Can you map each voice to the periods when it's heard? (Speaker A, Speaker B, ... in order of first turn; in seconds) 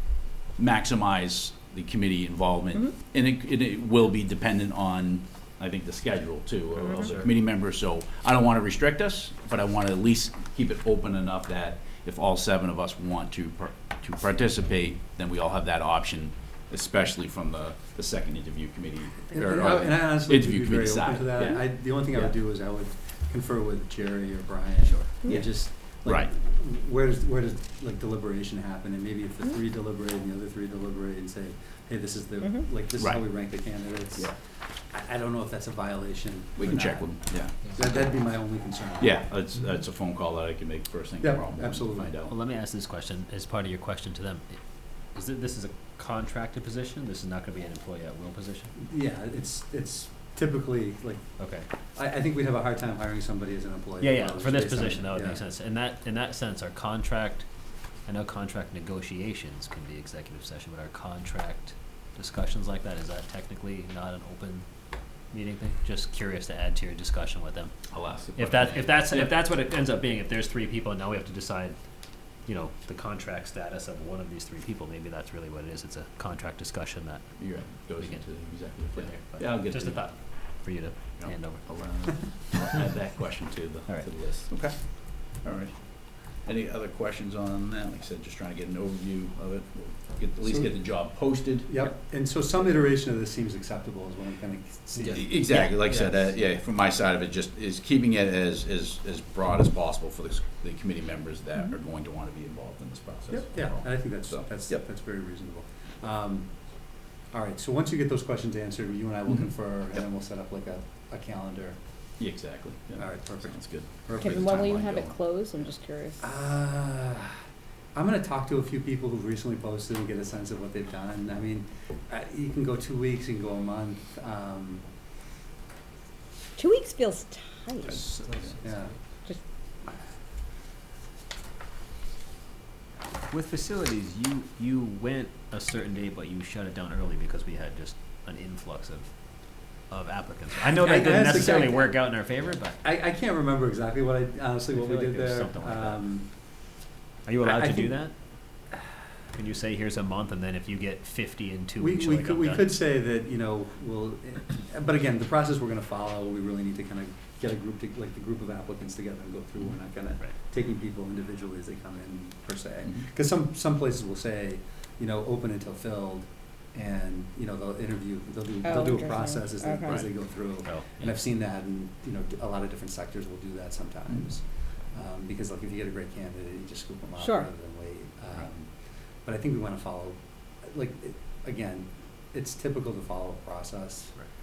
Speaker A: 0.6-22.3, 25.3-25.5, 26.1-26.3, 33.0-33.2, 36.6-37.9, 39.0-42.3, 67.9-69.3, 77.4-80.2, 81.2-91.8, 95.0-104.8, 112.2-115.2, 127.8-128.6
Speaker B: 19.3-34.4, 34.9-39.2, 41.2-42.1, 48.8-51.2, 52.0-55.4, 90.4-90.8, 91.6-95.4, 103.3-106.5, 107.3-111.8, 113.0-114.5, 116.2-117.4, 117.9-124.8, 128.6-128.9, 140.8-141.9, 142.8-146.3, 147.4-148.0, 151.8-178.7, 179.2-184.2
Speaker C: 24.8-25.1, 42.0-44.6, 45.1-48.7, 51.4-51.6, 54.0-57.5, 58.0-64.7, 65.3-67.7, 68.3-71.8, 72.5-77.3, 77.8-81.7, 83.9-84.5, 133.3-139.1, 139.9-142.8, 144.7-146.0, 147.2-148.1, 149.3-152.7, 170.6-171.0
Speaker D: 114.2-116.2, 126.5-128.1, 140.8-141.9, 168.6-170.1, 177.2-177.5